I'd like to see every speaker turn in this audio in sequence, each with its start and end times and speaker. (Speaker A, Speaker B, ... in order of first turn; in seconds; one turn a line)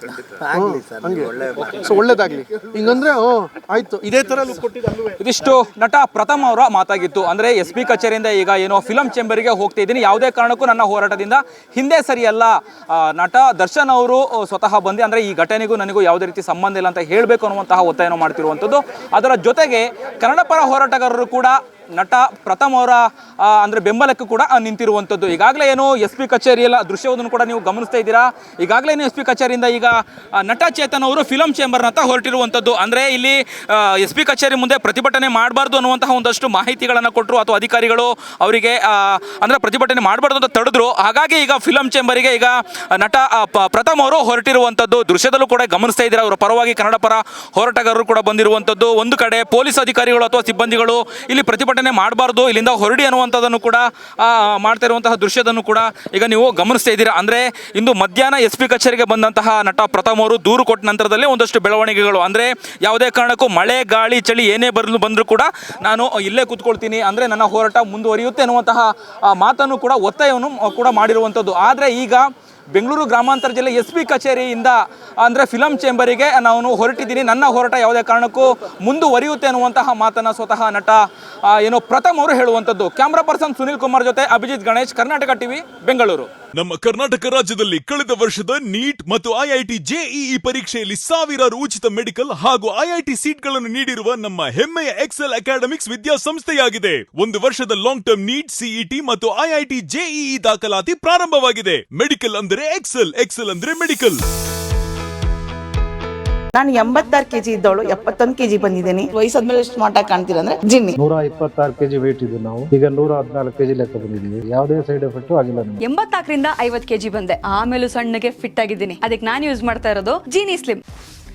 Speaker A: 0.2-5.2
Speaker B: 5.2-86.3
Speaker C: 86.5-104.2
Speaker D: 106.6-110.9
Speaker E: 111.0-115.8
Speaker F: 115.8-120.8